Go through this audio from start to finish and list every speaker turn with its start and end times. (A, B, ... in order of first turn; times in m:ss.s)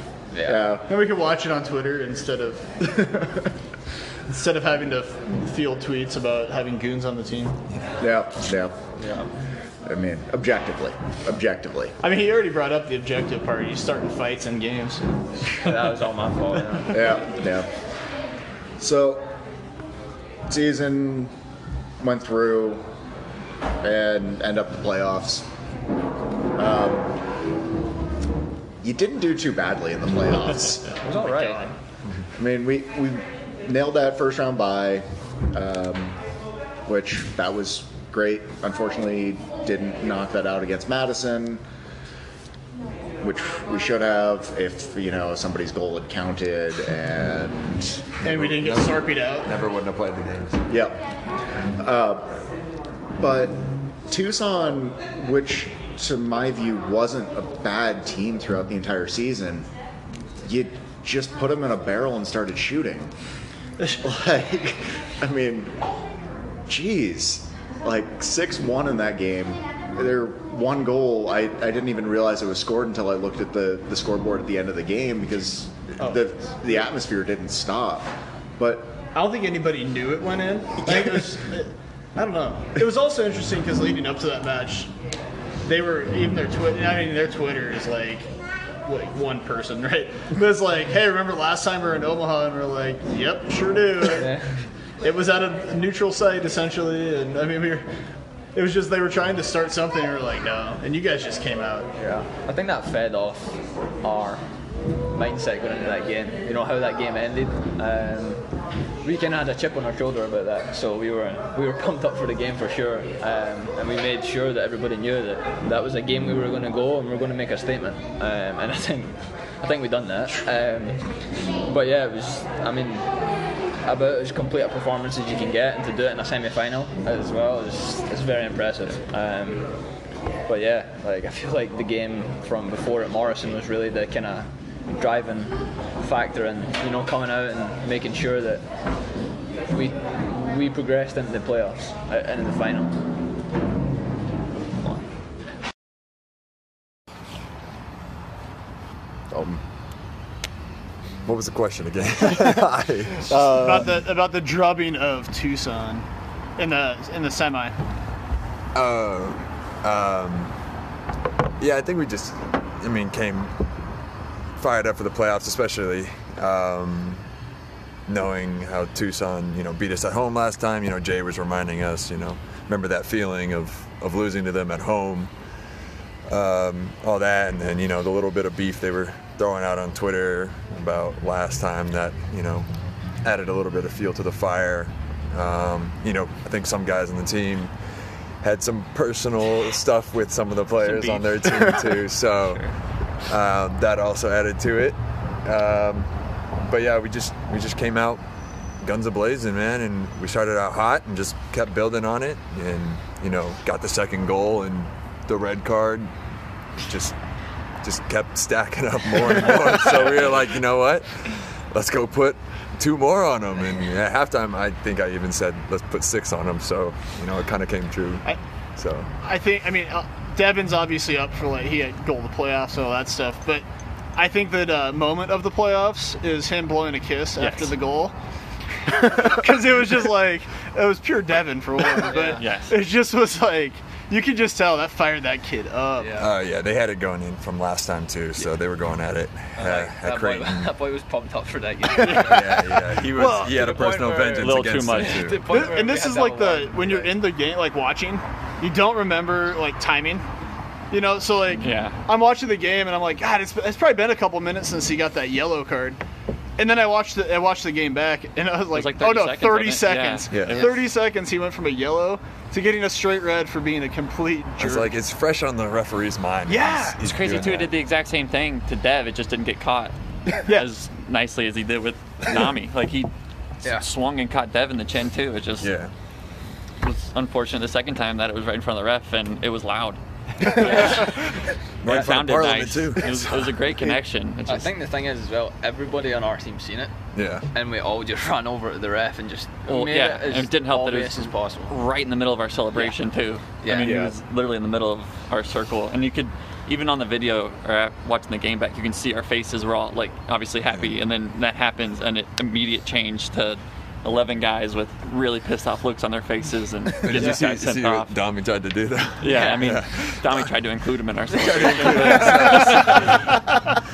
0:00.3-0:00.7 A
0:00.4-0:00.9 B
0:00.9-0:03.2 C
0:03.0-0:03.3 B
0:04.2-0:07.6 C
0:07.7-0:08.0 D
0:08.0-0:08.9 B
0:09.0-0:09.3 A
0:09.8-0:11.9 B
0:12.0-0:15.0 C
0:15.5-0:17.2 A
0:16.9-0:17.7 B
0:18.8-0:19.2 B
0:20.5-0:21.3 B
0:22.0-0:22.8 B
0:23.8-0:25.5 B
0:26.6-0:27.1 B
0:28.8-0:30.9 B
0:31.0-0:31.7 A
0:31.0-0:31.7 C
0:32.4-0:36.2 B
0:36.8-0:41.6 B
0:43.2-0:48.0 B
0:48.2-0:50.7 D
0:48.2-0:49.5 C
0:50.7-0:51.0 B
0:51.8-0:52.3 B
0:53.2-0:59.7 B
1:00.4-1:03.1 B
1:04.0-1:05.7 B
1:06.7-1:19.0 B
1:19.1-1:25.0 C
1:25.6-1:34.4 C
1:34.1-1:34.7 A
1:35.0-1:37.9 C
1:38.5-1:41.9 C
1:42.0-1:44.5 A
1:45.0-2:23.0 A
2:24.8-2:25.1 A
2:29.3-2:29.6 B
2:31.2-2:33.5 D
2:33.3-2:33.9 B
2:33.6-2:36.0 C
2:36.6-2:37.8 C
2:38.7-2:40.6 D
2:41.6-2:43.6 D
2:44.5-2:47.3 D
2:48.1-2:55.6 D
2:56.3-3:18.2 D
3:10.8-3:11.6 E
3:18.8-3:26.1 D
3:26.7-3:39.1 D
3:39.2-3:48.1 C
3:48.8-3:56.3 C
3:51.9-3:52.4 A
3:52.2-3:52.7 E
3:56.0-3:56.2 A
3:56.2-4:00.7 D
3:59.6-4:02.6 A
4:02.0-4:02.6 C
4:02.0-4:05.7 D
4:03.1-4:03.9 C
4:03.5-4:07.2 A
4:04.4-4:05.3 E
4:05.5-4:10.2 C
4:10.9-4:16.0 C
4:11.6-4:12.0 E
4:16.6-4:24.9 C
4:18.7-4:20.7 E
4:20.3-4:20.7 D
4:24.6-4:27.7 D
4:26.5-4:27.0 C
4:27.0-4:35.7 E
4:35.6-4:35.9 D
4:36.8-4:44.6 E
4:41.8-4:43.6 D
4:44.4-4:51.7 A
4:47.1-4:47.5 D
4:49.7-5:08.1 E
4:53.6-4:54.0 A
4:53.8-4:54.1 D
4:53.8-4:54.1 B
5:07.0-5:10.5 D
5:09.2-5:13.1 E
5:09.4-5:09.6 A
5:11.4-5:13.2 D
5:11.4-5:13.0 A